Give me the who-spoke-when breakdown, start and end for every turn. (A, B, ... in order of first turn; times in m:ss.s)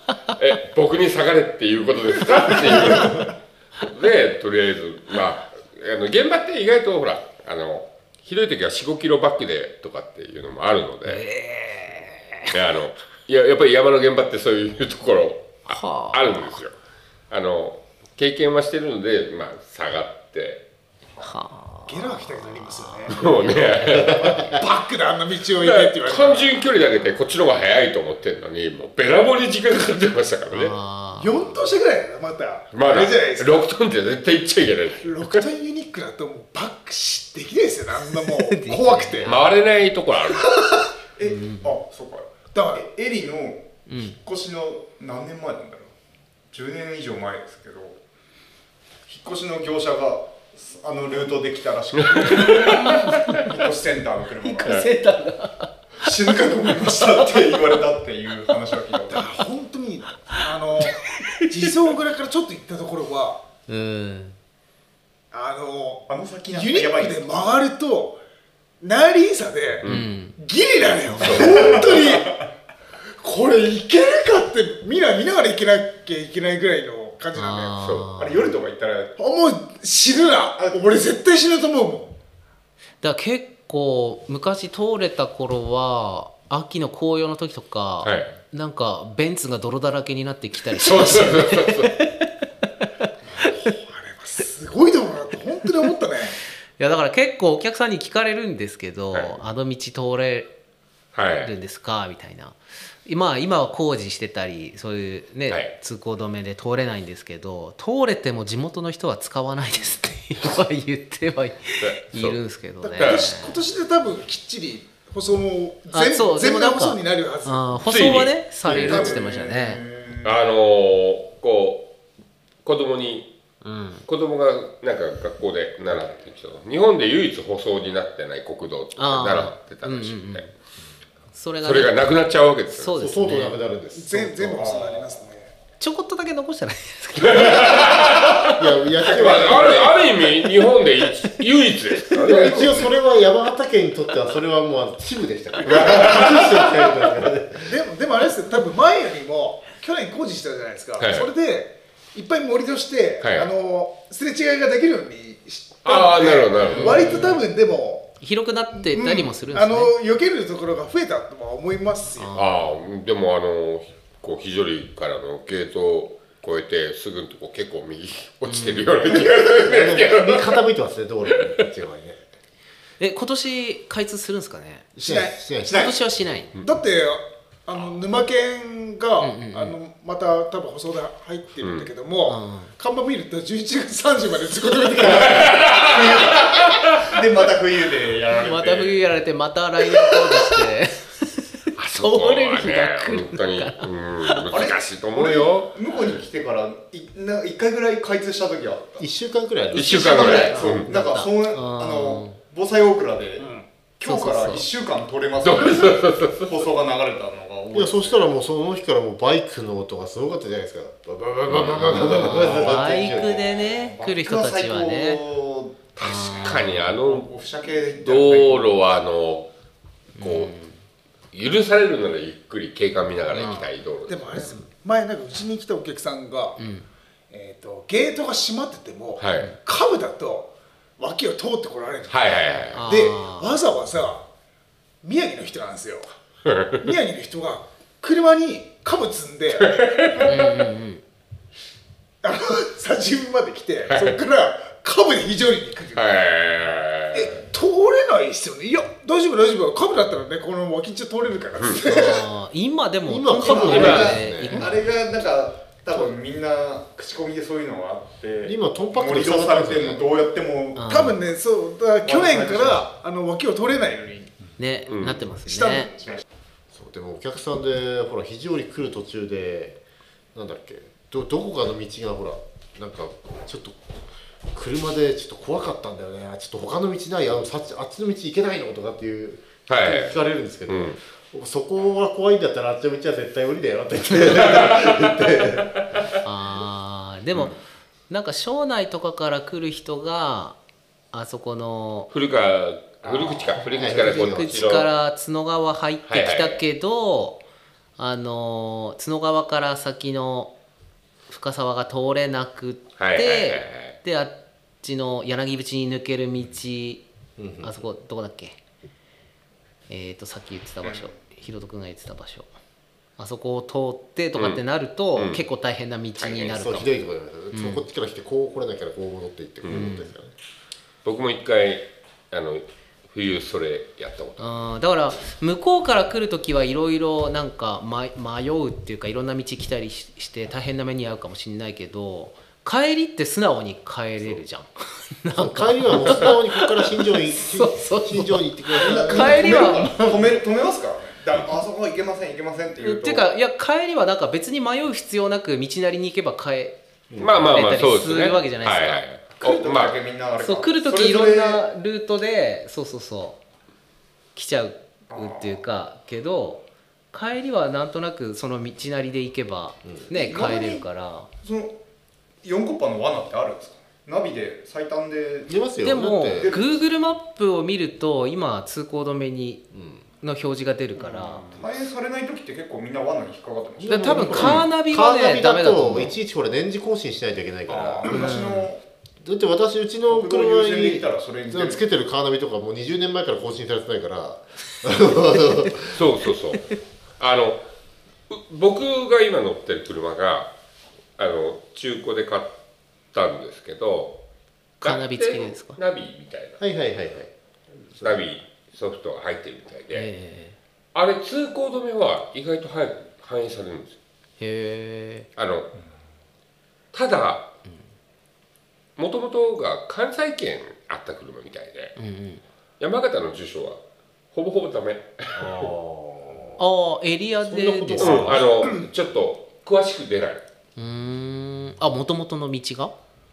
0:00.3-0:11.2 A
0:11.0-0:12.5 B
0:12.5-0:16.7 A
0:15.7-0:16.6 B
0:17.3-0:20.6 A
0:21.2-0:23.9 B
0:21.8-0:23.2 C
0:23.1-0:24.6 A
0:23.8-0:24.6 D
0:24.5-0:26.7 C
0:25.5-0:30.7 A
0:30.5-0:31.4 B
0:31.2-0:33.7 C
0:32.7-0:35.4 A
0:35.0-0:39.5 C
0:38.2-0:39.5 B
0:39.2-0:40.5 A
0:41.2-0:45.9 E
0:41.2-0:41.7 B
0:42.5-0:42.9 C
0:43.9-0:44.2 B
0:46.5-0:48.0 E
0:49.1-0:54.8 E
0:52.0-0:53.3 A
0:54.4-0:55.7 B
0:54.6-0:54.9 A
0:56.0-0:59.2 E
0:59.1-1:03.4 C
1:00.8-1:01.4 B
1:03.7-1:04.4 B
1:05.3-1:08.2 C
1:06.1-1:07.3 E
1:08.8-1:12.5 C
1:09.8-1:10.1 A
1:09.8-1:10.4 B
1:11.1-1:11.8 B
1:11.2-1:11.6 A
1:11.3-1:12.2 E
1:13.2-1:18.0 C
1:17.3-1:18.5 B
1:18.2-1:19.2 E
1:19.2-1:22.2 C
1:23.0-1:32.3 B
1:28.0-1:28.4 A
1:30.8-1:32.0 A
1:32.8-1:33.6 B
1:33.4-1:36.4 C
1:36.8-1:40.5 B
1:39.1-1:39.4 A
1:41.1-1:41.5 A
1:41.4-1:53.6 B
1:45.5-1:45.7 A
1:51.8-1:52.4 A
1:52.8-1:57.7 C
1:53.0-1:53.3 A
1:55.9-1:59.8 B
1:57.8-1:59.2 A
1:58.7-2:00.4 E
2:00.2-2:01.9 A
2:02.6-2:03.3 A
2:03.6-2:04.0 B
2:04.0-2:10.5 A
2:09.0-2:10.5 B
2:11.3-2:12.1 B
2:11.6-2:13.0 A
2:12.7-2:13.6 B
2:12.9-2:14.6 D
2:13.9-2:15.5 C
2:14.5-2:15.3 E
2:15.8-2:18.5 B
2:17.2-2:22.7 A
2:18.5-2:19.9 D
2:19.2-2:20.0 E
2:22.1-2:27.7 D
2:22.3-2:22.6 E
2:25.7-2:26.6 A
2:27.6-2:38.2 C
2:31.0-2:31.3 A
2:33.2-2:33.5 A
2:35.8-2:37.3 A
2:36.7-2:37.3 B
2:36.8-2:37.1 D
2:38.2-2:40.0 B
2:38.7-2:42.4 C
2:42.2-2:42.8 B
2:42.3-2:50.6 A
2:48.4-2:48.9 B
2:49.3-2:52.2 D
2:51.3-2:51.6 A
2:53.0-2:54.9 B
2:55.0-2:56.0 D
2:55.0-2:55.5 C
2:55.6-2:56.5 B
2:56.5-3:06.5 C
2:59.2-2:59.8 B
3:01.6-3:01.9 A
3:02.2-3:02.7 B
3:04.9-3:09.0 E
3:05.5-3:06.3 A
3:08.3-3:14.4 B
3:11.8-3:15.8 A
3:14.5-3:19.0 E
3:19.0-3:20.1 D
3:19.7-3:20.9 A
3:19.7-3:28.3 E
3:20.0-3:22.4 B
3:24.0-3:24.6 B
3:25.4-3:26.7 A
3:27.7-3:33.4 D
3:31.4-3:32.6 A
3:31.9-3:35.2 B
3:32.0-3:35.8 E
3:36.0-3:37.3 A
3:36.0-3:37.0 B
3:37.0-3:38.8 E
3:37.9-3:39.5 A
3:40.2-3:40.8 B
3:40.2-3:40.5 A
3:41.3-3:44.5 A
3:43.3-3:43.7 B
3:44.1-3:46.6 C
3:46.6-3:46.9 B
3:47.3-3:54.3 C
3:49.2-3:49.5 A
3:52.1-3:52.8 A
3:52.7-3:53.6 B
3:55.0-3:56.1 C
3:56.4-3:56.8 A
3:56.8-3:59.8 C
3:59.6-4:00.5 A
4:00.2-4:01.0 B
4:02.2-4:06.2 C
4:03.9-4:04.2 A
4:05.9-4:07.3 A
4:07.1-4:12.3 C
4:11.6-4:11.8 A
4:11.8-4:14.8 B
4:13.0-4:14.7 D
4:13.4-4:21.2 E
4:13.7-4:14.2 A
4:18.4-4:20.0 D
4:20.8-4:21.2 B
4:20.8-4:24.3 C
4:22.0-4:22.9 E
4:24.6-4:25.9 B
4:24.9-4:25.3 A
4:25.3-4:26.2 C
4:26.7-4:29.8 D
4:30.3-4:33.8 D
4:34.5-4:45.8 D
4:39.7-4:41.0 A
4:46.2-4:50.6 B
4:51.1-4:52.1 B
4:52.1-4:54.9 A
4:53.7-4:54.6 D
4:53.8-4:57.4 B
4:56.0-4:56.6 A
4:58.0-5:00.5 B
5:01.3-5:07.0 B
5:03.0-5:04.0 A
5:07.4-5:07.8 D
5:07.6-5:08.6 B
5:09.9-5:12.5 B
5:13.2-5:16.9 B
5:14.4-5:15.4 A
5:16.2-5:16.6 A
5:16.5-5:20.3 D
5:17.5-5:17.8 B
5:19.6-5:19.9 A
5:19.7-5:20.1 B
5:21.0-5:24.6 A
5:24.4-5:40.4 B
5:35.3-5:39.9 D
5:38.8-5:43.3 E
5:42.8-5:49.0 B
5:47.1-5:47.4 D
5:47.2-5:50.0 A
5:49.4-5:51.6 E
5:50.4-5:53.4 B
5:54.3-6:01.3 B
5:55.1-5:55.6 E
6:00.1-6:00.8 E
6:01.4-6:01.8 E
6:02.4-6:05.6 E
6:05.5-6:06.6 D
6:05.8-6:11.6 B
6:06.4-6:06.7 E
6:09.7-6:10.0 D
6:11.0-6:14.5 E
6:13.8-6:18.4 D
6:13.9-6:16.2 B
6:14.4-6:14.7 A
6:17.7-6:18.8 E
6:18.1-6:18.7 B
6:19.2-6:26.0 D
6:20.1-6:21.8 E
6:25.9-6:27.6 A
6:28.3-6:30.5 A
6:31.2-6:32.5 A
6:33.1-6:34.2 A
6:34.8-6:36.6 A
6:34.8-6:35.8 B
6:36.6-6:37.3 D
6:37.9-6:38.3 D
6:38.0-6:40.1 A
6:39.9-6:40.6 B
6:40.9-6:44.0 A
6:44.4-6:45.3 B
6:45.4-6:45.7 A
6:46.9-6:47.6 A
6:49.0-6:52.0 A
6:52.0-6:52.4 B
6:52.8-6:53.8 A
6:54.3-6:55.7 A
6:55.3-6:56.6 D
6:56.6-6:58.4 B
6:57.4-6:58.5 D
6:58.0-7:00.4 A
7:00.8-7:02.9 B